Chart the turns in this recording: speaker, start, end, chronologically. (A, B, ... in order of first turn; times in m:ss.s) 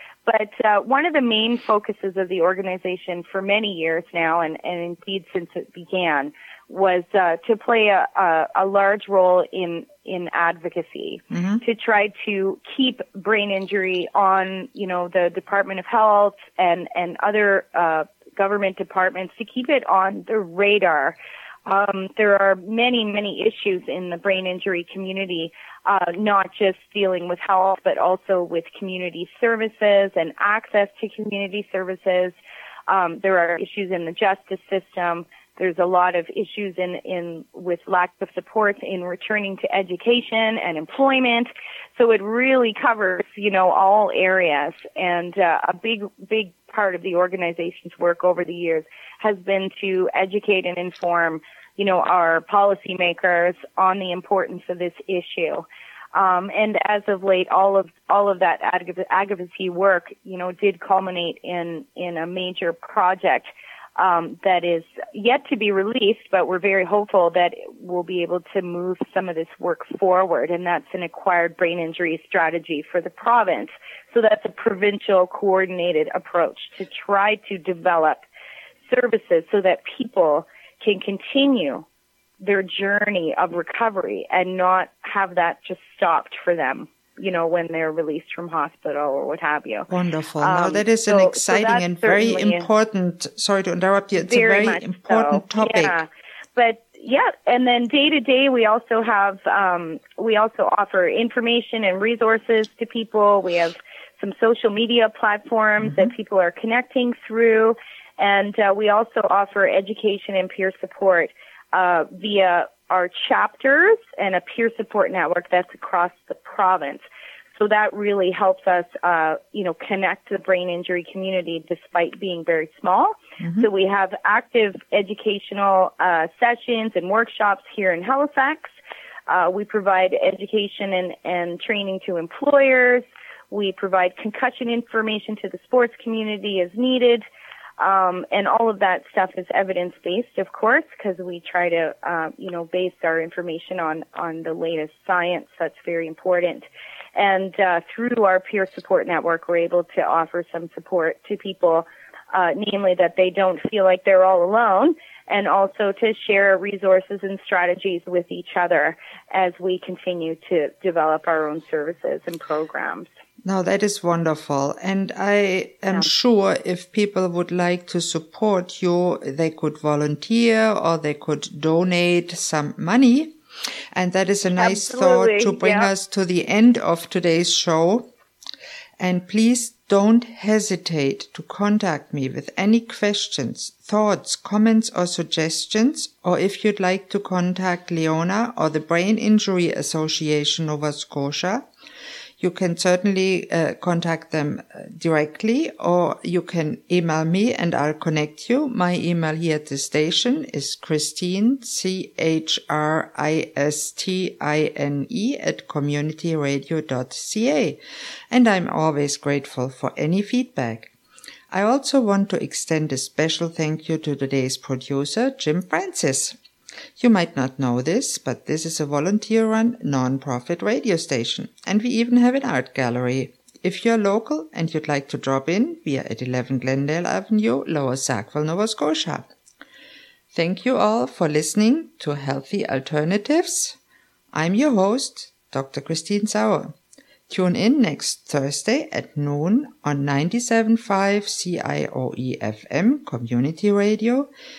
0:00.2-0:32.4 A
0:11.3-0:11.6 B
0:32.9-1:18.2 A
1:18.9-1:21.8 A
1:22.4-1:29.9 A
1:29.9-1:36.0 B
1:30.4-1:32.7 A
1:34.2-1:57.0 A
1:45.8-1:46.1 B
1:57.6-2:08.8 A
2:03.4-2:03.7 B
2:09.3-2:17.2 A
2:17.8-2:43.1 A
2:43.5-2:53.3 B
2:53.9-2:58.1 B
2:54.6-2:55.9 A
2:59.0-3:11.7 B
3:12.4-3:27.8 B
3:28.3-3:30.9 B
3:31.5-3:36.4 B
3:37.0-3:49.3 B
3:50.3-3:53.8 B
3:54.3-3:56.8 B
3:57.3-4:04.3 B